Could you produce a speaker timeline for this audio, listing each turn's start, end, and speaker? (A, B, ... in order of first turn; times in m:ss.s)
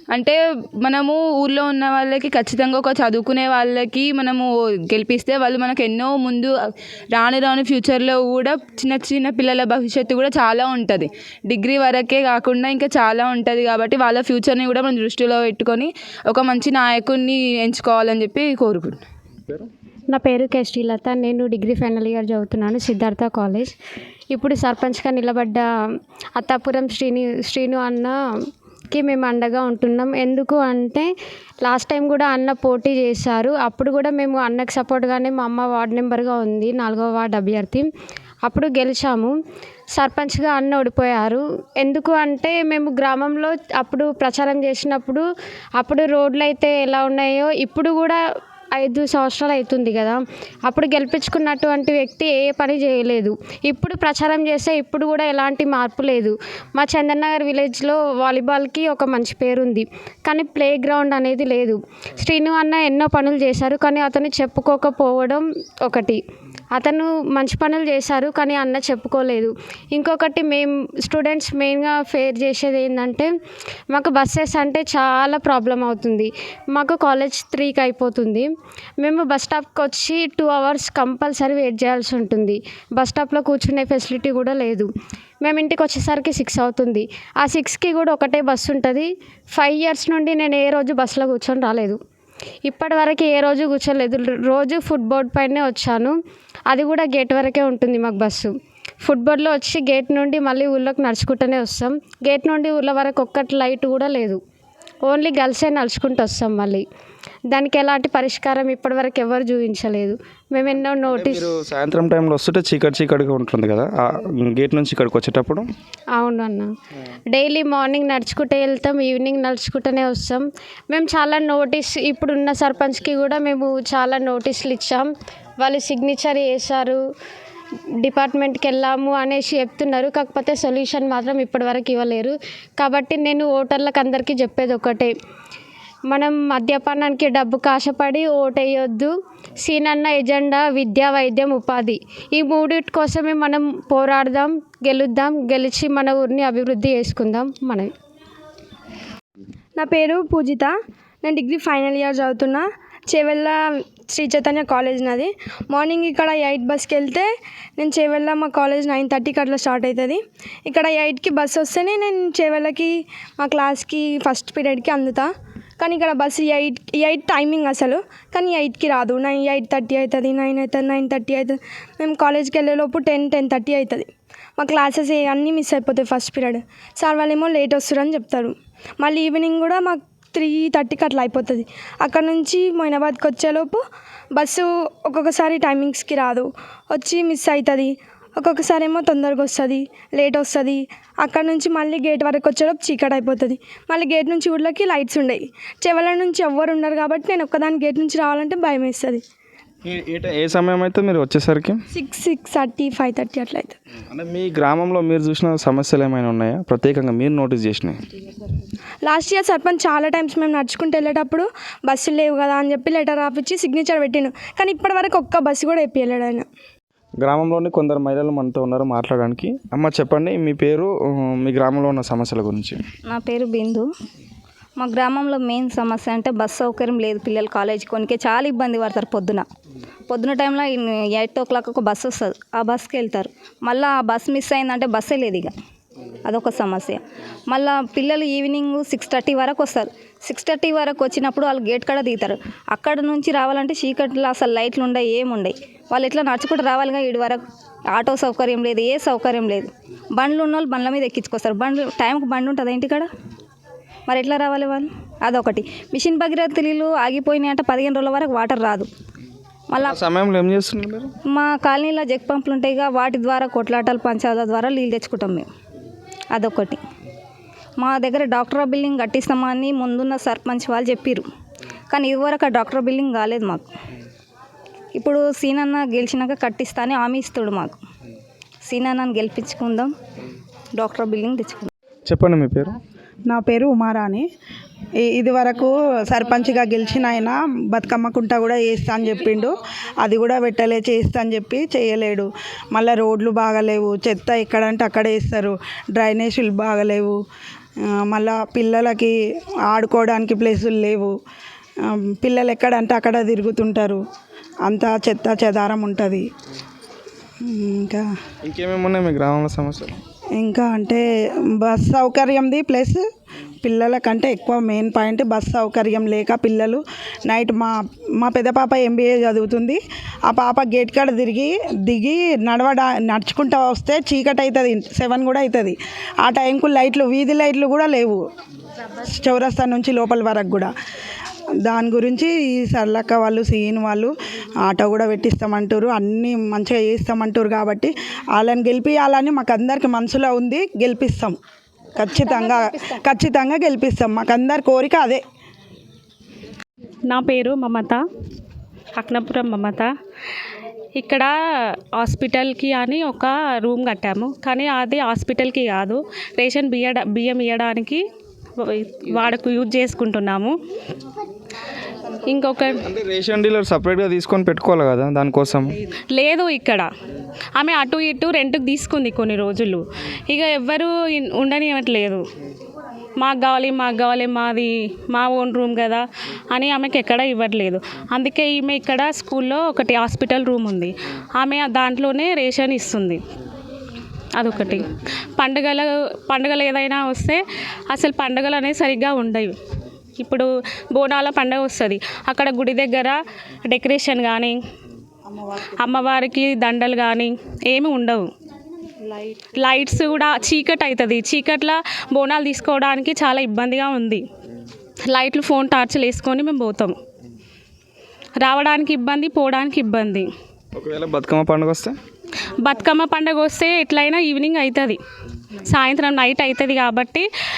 0:00.1-0:19.0 A
0:20.1-0:23.7 B
0:24.3-0:25.6 B
0:26.4-0:28.2 B
0:28.9-0:31.1 B
0:31.6-0:37.8 B
0:38.4-0:39.4 B
0:40.0-0:45.2 B
0:45.8-0:48.2 B
0:48.8-1:06.2 B
1:06.7-1:13.3 B
1:13.9-1:18.5 B
1:19.0-1:24.9 B
1:25.4-1:32.0 B
1:32.6-1:36.2 B
1:36.7-1:38.5 B
1:39.0-1:44.4 B
1:45.0-1:46.8 B
1:47.5-1:51.5 B
1:51.1-1:55.6 C
1:56.2-1:56.7 B
1:57.3-2:05.1 B
2:05.6-2:07.0 B
2:08.0-2:15.1 B
2:16.1-2:27.9 B
2:29.8-3:19.2 D
3:19.8-3:21.8 C
3:21.9-3:23.7 D
3:24.1-3:28.0 C
3:29.0-3:36.5 D
3:37.2-3:42.8 C
3:43.1-3:43.9 E
3:44.8-3:49.5 E
3:50.1-3:55.5 E
3:56.2-4:13.1 E
4:14.1-4:18.9 E
4:19.7-4:20.0 E
4:19.8-4:21.1 C
4:21.3-4:25.5 E
4:26.3-4:26.8 E
4:27.8-4:31.2 E
4:31.9-4:33.7 E
4:34.9-4:37.8 E
4:38.6-4:39.9 E
4:40.8-4:41.7 E
4:42.0-4:42.8 C
4:43.3-4:44.2 F
4:45.0-4:57.2 F
4:57.9-4:59.1 F
4:59.7-5:01.1 F
5:01.8-5:04.0 F
5:04.6-5:06.2 F
5:07.4-5:08.0 F
5:08.4-5:09.9 C
5:10.4-5:11.0 F
5:11.6-5:13.0 F
5:13.6-5:28.2 F
5:29.0-5:30.7 F
5:31.6-5:34.1 F
5:34.6-5:41.4 F
5:42.0-5:45.2 F
5:47.1-5:48.0 G
5:48.9-5:49.9 G
5:51.0-5:51.3 G
5:52.0-5:58.0 G
5:58.6-6:00.5 G
6:02.3-6:02.8 G
6:02.8-6:05.7 C
6:06.1-6:06.9 G
6:07.6-6:12.2 G
6:13.2-6:23.2 G
6:24.4-6:29.5 G
6:30.2-6:34.6 G
6:35.6-6:38.3 G
6:39.6-6:44.2 G
6:45.1-6:46.9 G
6:48.4-6:50.3 G
6:50.7-6:51.9 C
6:52.6-6:55.0 G
6:55.7-6:57.3 G